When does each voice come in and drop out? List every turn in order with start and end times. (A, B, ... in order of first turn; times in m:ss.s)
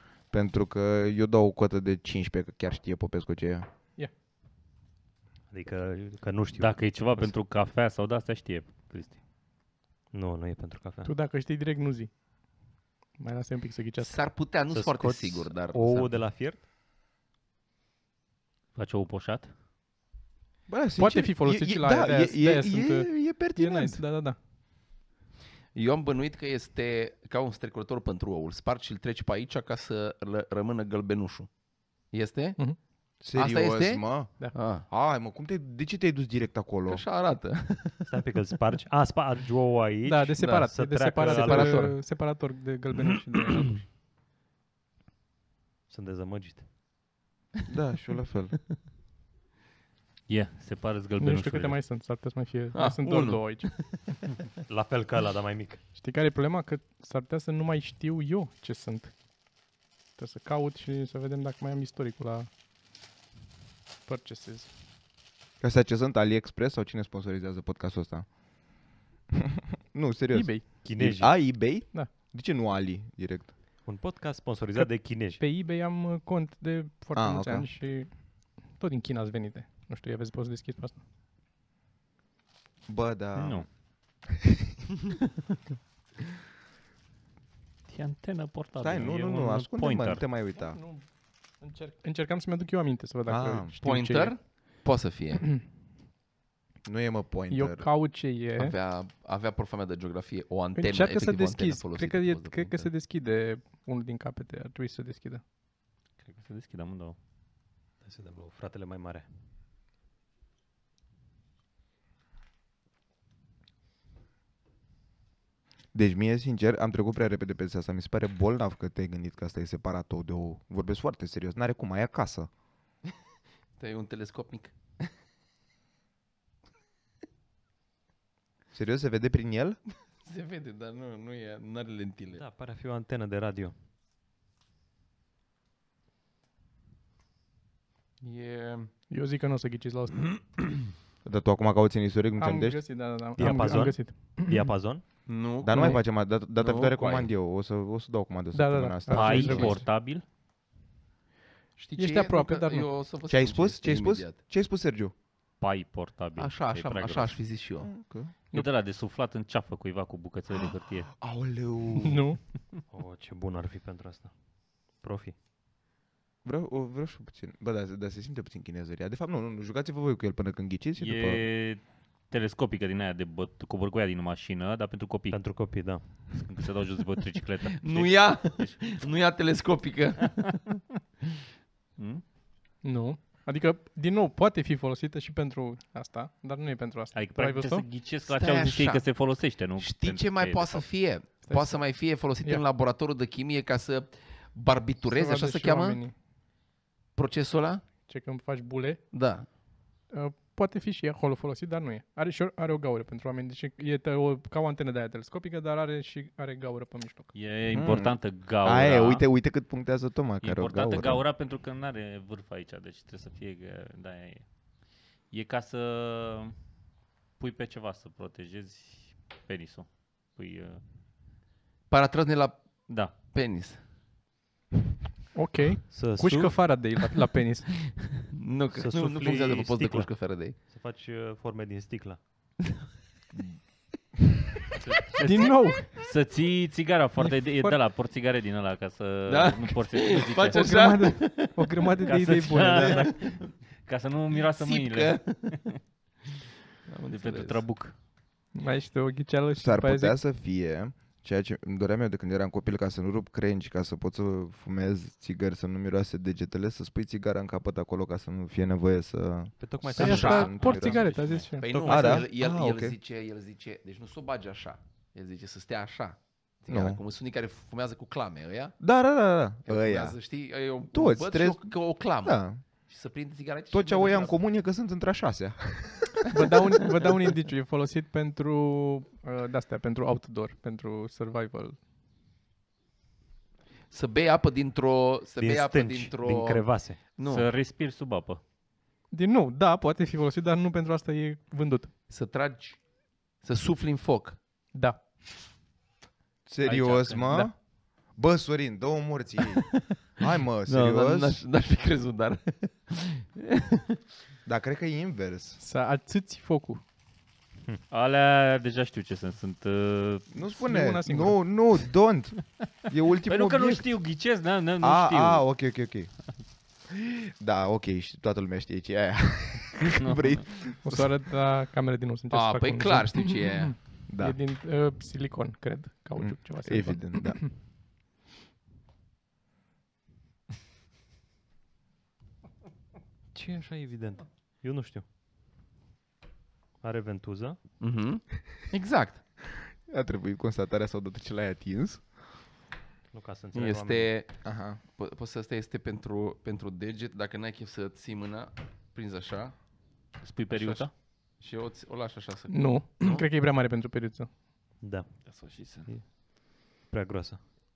0:00.3-0:03.7 A
0:05.5-0:07.4 B
0:06.6-0:09.2 C
0:10.1-0:11.1 B
0:11.0-0:12.1 D
0:13.2-0:14.2 D
0:14.0-0:16.2 E
0:14.7-0:16.6 B
0:18.8-0:19.5 C
0:20.7-0:24.0 A
0:21.0-0:24.4 D
0:25.7-0:31.5 E
0:32.1-0:32.6 E
0:33.2-0:37.0 A
0:33.3-0:34.9 E
0:36.9-0:38.1 E
0:38.0-0:42.0 B
0:40.0-0:43.8 D
0:40.4-0:42.0 E
0:45.9-0:46.6 B
0:47.7-0:48.6 A
0:50.3-0:51.8 C
0:51.2-0:53.7 D
0:52.7-0:54.0 E
0:54.7-0:55.8 B
0:56.0-0:59.2 D
1:00.2-1:02.5 D
1:04.0-1:04.7 D
1:05.6-1:08.3 A
1:09.4-1:13.5 A
1:10.3-1:10.8 D
1:10.8-1:11.6 B
1:13.8-1:15.4 B
1:14.8-1:21.0 D
1:17.2-1:17.7 A
1:22.9-1:23.8 A
1:23.4-1:23.7 C
1:27.9-1:30.2 C
1:28.8-1:30.8 A
1:30.6-1:34.4 D
1:33.3-1:33.7 A
1:33.8-1:35.5 E
1:36.8-1:37.9 A
1:37.5-1:38.8 D
1:38.6-1:42.9 E
1:40.8-1:45.4 D
1:46.2-1:47.2 C
1:48.0-1:49.3 B
1:55.9-2:02.5 A
2:03.8-2:04.8 E
2:08.7-2:09.8 A
2:10.2-2:12.4 E
2:12.3-2:13.7 B
2:18.2-2:18.9 E
2:19.1-2:20.2 D
2:20.3-2:20.6 E
2:21.2-2:22.8 A
2:22.4-2:24.8 D
2:23.4-2:25.0 B
2:25.3-2:27.3 E
2:25.6-2:29.8 A
2:25.7-2:26.0 D
2:28.5-2:29.8 D
2:29.1-2:30.2 C
2:31.8-2:34.4 E
2:32.0-2:33.0 D
2:33.3-2:35.1 A
2:35.6-2:37.4 C
2:36.4-2:37.9 E
2:37.8-2:38.3 A
2:38.5-2:41.1 C
2:41.2-2:42.2 A
2:42.0-2:42.4 D
2:42.9-2:44.3 B
2:44.9-2:45.4 B
2:46.4-2:51.4 A
2:51.0-2:55.8 C
2:55.3-2:56.4 B
2:56.4-2:59.0 C
2:57.8-3:00.6 E
3:02.0-3:02.2 C
3:02.8-3:07.9 D
3:07.1-3:10.8 C
3:08.3-3:09.1 E
3:09.8-3:16.0 E
3:11.4-3:12.6 D
3:15.1-3:16.1 D
3:17.2-3:17.9 E
3:18.0-3:19.0 D
3:19.1-3:19.5 E
3:20.1-3:27.4 D
3:27.3-3:29.3 C
3:27.7-3:31.2 A
3:30.4-3:34.5 C
3:35.3-3:36.6 C
3:37.4-3:40.8 C
3:41.9-3:43.8 E
3:42.9-3:43.1 C
3:45.3-3:47.7 D
3:45.9-3:46.9 B
3:48.2-3:50.6 E
3:48.7-3:52.5 B
3:54.8-4:01.2 C
3:55.2-3:56.0 D
3:57.2-3:57.8 D
3:59.3-4:02.0 E
4:00.5-4:03.2 D
4:02.0-4:05.8 C
4:02.7-4:03.5 E
4:04.5-4:05.7 E
4:06.9-4:07.6 E
4:07.1-4:08.0 C
4:08.5-4:10.2 D
4:09.6-4:21.1 A
4:19.6-4:22.3 B
4:20.0-4:21.8 D
4:20.0-4:20.5 E
4:21.2-4:21.4 C
4:21.6-4:28.8 E
4:21.9-4:23.0 A
4:26.7-4:27.0 A
4:28.8-4:30.2 A
4:29.7-4:34.4 E
4:30.9-4:32.6 A
4:33.7-4:36.3 A
4:36.3-4:41.8 D
4:43.9-4:47.5 E
4:45.4-4:47.0 B
4:47.2-4:48.4 C
4:49.1-4:51.9 D
4:52.1-4:52.8 E
4:53.4-4:54.4 E
4:54.7-4:55.0 D
4:56.5-4:57.6 A
4:56.6-4:57.5 C
4:58.1-5:01.4 A
5:00.7-5:04.0 E
5:04.5-5:05.6 A
5:05.6-5:06.8 D
5:07.9-5:10.3 C
5:10.3-5:13.9 A
5:10.6-5:11.4 D
5:13.2-5:15.5 C
5:14.8-5:16.1 A
5:16.9-5:21.1 A
5:20.8-5:27.5 D
5:22.3-5:23.8 E
5:24.1-5:24.4 A
5:26.2-5:27.5 A
5:33.3-5:35.0 B
5:36.8-5:37.6 B
5:37.8-5:39.2 E
5:39.9-5:42.1 A
5:43.1-5:44.1 B
5:43.5-5:49.6 E
5:44.4-5:44.8 A
5:50.2-5:50.9 C
5:50.5-5:53.2 E
5:52.5-5:54.3 D
5:54.8-5:57.4 B
5:55.3-5:55.9 E
5:55.5-5:55.9 C